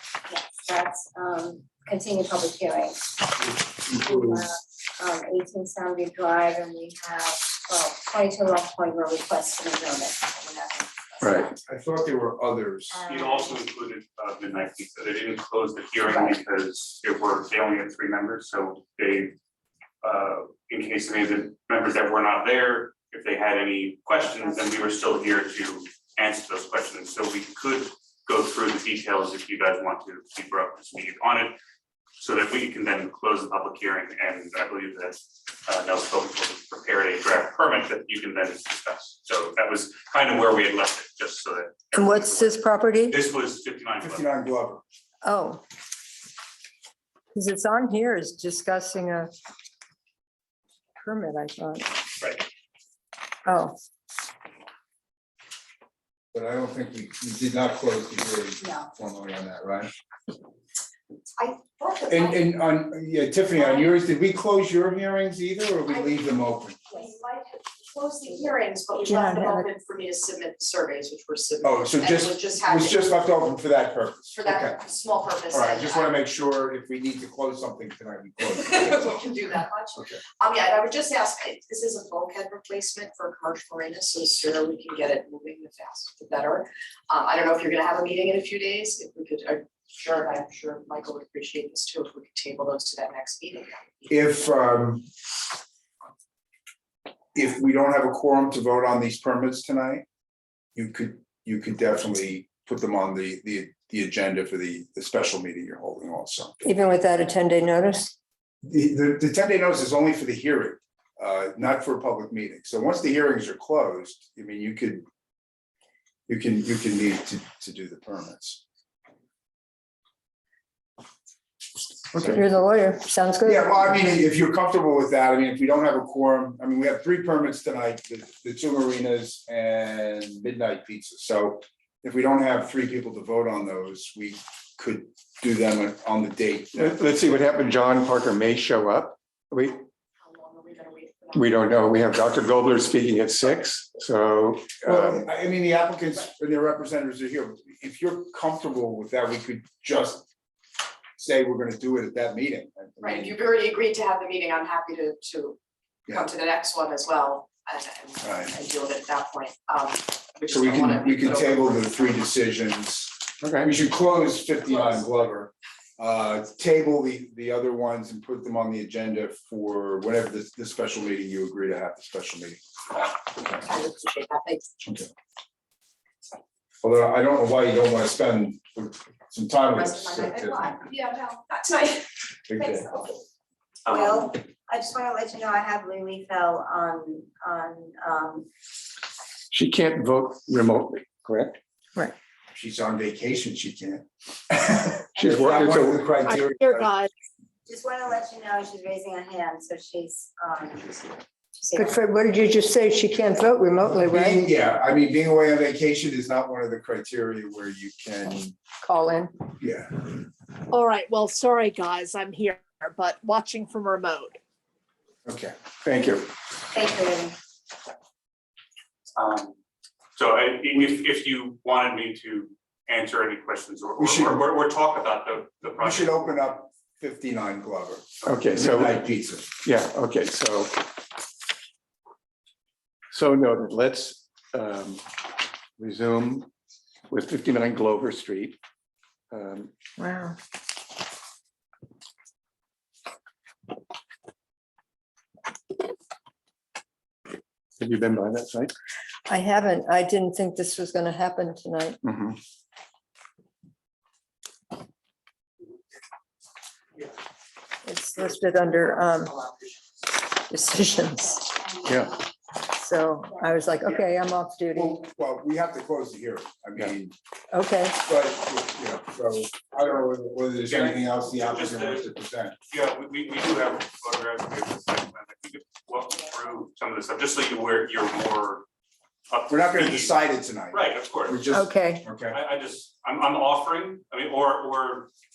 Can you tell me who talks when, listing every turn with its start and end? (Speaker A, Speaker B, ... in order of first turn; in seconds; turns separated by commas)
Speaker A: 0.3-3.2, Speaker B: 3.4-4.4, Speaker A: 3.9-11.6, Speaker C: 11.2-11.5, Speaker B: 11.7-13.0, Speaker A: 12.9-13.6, Speaker D: 13.0-19.4, Speaker A: 16.1-16.4, Speaker D: 20.0-31.6, Speaker D: 32.2-44.3, Speaker E: 41.9-43.2, Speaker B: 44.0-44.8, Speaker E: 45.2-45.6, Speaker E: 47.3-49.3, Speaker E: 51.0-51.9, Speaker E: 53.5-53.8, Speaker B: 56.3-59.9, Speaker A: 58.6-58.9, Speaker F: 61.4-62.5, Speaker B: 62.1-66.8, Speaker F: 65.9-73.2, Speaker E: 69.0-69.7, Speaker B: 71.6-74.8, Speaker F: 74.3-76.2, Speaker B: 75.5-79.2, Speaker F: 78.4-94.1, Speaker B: 94.1-95.0, Speaker B: 97.3-100.0, Speaker B: 100.8-106.6, Speaker E: 106.6-108.1, Speaker B: 108.6-115.0, Speaker B: 116.3-118.6, Speaker B: 122.1-122.4, Speaker E: 122.2-123.8, Speaker B: 123.4-137.4, Speaker C: 136.8-139.8, Speaker F: 140.2-142.1, Speaker C: 141.3-145.2, Speaker B: 144.8-150.3, Speaker B: 151.2-153.4, Speaker F: 153.0-162.3, Speaker B: 158.2-158.5, Speaker B: 160.5-172.6, Speaker C: 163.4-163.7, Speaker F: 164.7-165.1, Speaker F: 173.4-174.7, Speaker B: 174.8-175.1, Speaker B: 176.8-180.8, Speaker F: 179.7-183.2, Speaker B: 182.5-182.9, Speaker A: 183.9-188.5, Speaker D: 183.9-184.3, Speaker C: 189.5-191.6, Speaker B: 192.5-196.9, Speaker G: 196.3-197.1, Speaker A: 197.7-202.1, Speaker E: 201.8-204.4, Speaker B: 203.9-208.6, Speaker E: 208.8-209.3, Speaker B: 209.6-210.1, Speaker G: 210.7-214.3, Speaker B: 215.3-216.2, Speaker A: 216.7-217.4, Speaker D: 219.2-219.5, Speaker D: 220.2-226.4, Speaker B: 224.0-224.4, Speaker B: 225.8-229.6, Speaker C: 228.3-229.0, Speaker C: 229.6-230.8, Speaker C: 233.1-235.1, Speaker C: 235.8-236.5, Speaker C: 237.1-238.6, Speaker C: 239.3-239.8, Speaker E: 240.0-240.4, Speaker C: 247.8-248.7, Speaker E: 249.3-252.0, Speaker C: 252.0-252.4, Speaker E: 257.9-259.4, Speaker F: 258.1-259.8, Speaker E: 260.5-261.7, Speaker C: 261.8-262.1, Speaker E: 262.7-265.0, Speaker B: 264.7-267.1, Speaker E: 267.5-268.0, Speaker B: 268.0-272.6, Speaker D: 270.7-272.1, Speaker D: 272.7-278.6, Speaker D: 279.3-281.4, Speaker B: 279.5-282.4, Speaker E: 281.5-282.1, Speaker D: 282.3-285.1